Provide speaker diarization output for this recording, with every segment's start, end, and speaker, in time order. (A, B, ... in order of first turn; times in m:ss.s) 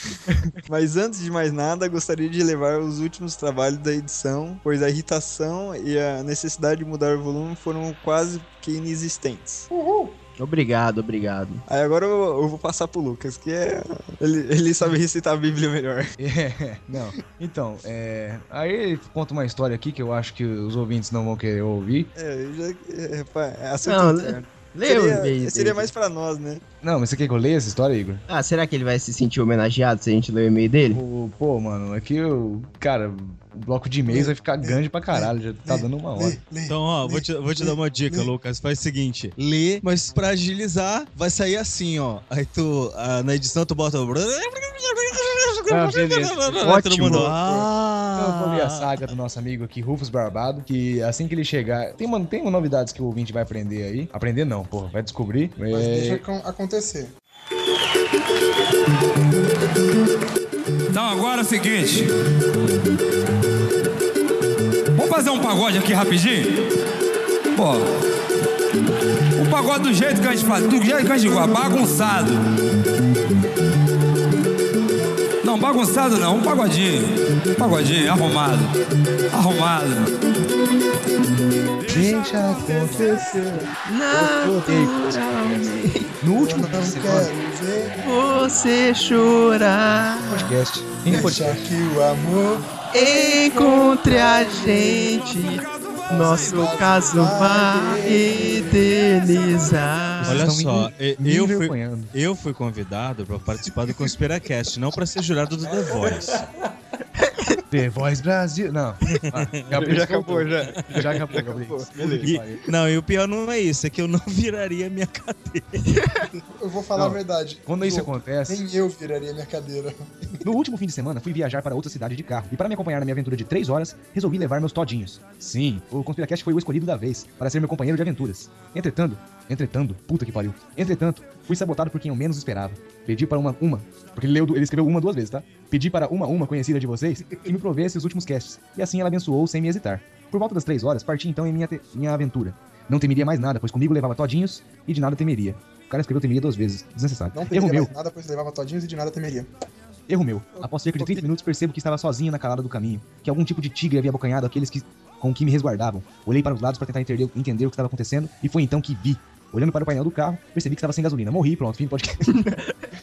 0:00.7-0:09.7 A
0:09.7-0:10.2 B
0:10.4-0:11.6 C
0:11.7-0:16.1 A
0:16.2-0:22.1 D
0:22.2-0:26.6 A
0:23.8-0:25.9 C
0:26.8-0:28.2 D
0:28.3-0:31.0 C
0:30.9-0:36.4 D
0:34.1-0:38.3 B
0:36.7-0:48.9 E
0:45.7-0:47.4 D
0:46.6-0:47.0 C
0:47.1-0:47.7 B
0:48.2-0:56.2 D
0:55.7-0:57.1 B
1:00.9-1:02.1 F
1:04.9-1:06.5 F
1:07.6-1:07.9 F
1:09.4-1:12.4 F
1:15.4-1:18.7 F
1:19.3-1:20.1 F
1:21.9-1:25.6 D
1:21.9-1:23.2 F
1:22.6-1:23.7 B
1:23.8-1:26.1 C
1:26.2-1:27.9 D
1:26.4-1:28.2 B
1:28.0-1:30.5 C
1:30.3-1:31.7 D
1:31.1-1:35.3 B
1:32.9-1:40.4 C
1:35.8-1:36.6 F
1:36.1-1:39.7 B
1:40.2-1:42.1 D
1:40.2-1:46.4 E
1:45.6-1:46.7 B
1:47.2-1:47.6 C
1:47.7-1:52.6 D
1:49.2-1:49.8 E
1:49.8-1:52.3 A
1:50.8-1:51.2 E
1:52.2-1:56.0 E
1:55.9-1:56.2 C
1:56.3-2:00.4 B
1:57.0-1:58.6 D
2:00.4-2:27.9 D
2:27.3-2:29.5 B
2:30.1-2:42.4 D
2:30.6-2:31.3 B
2:42.3-2:42.7 C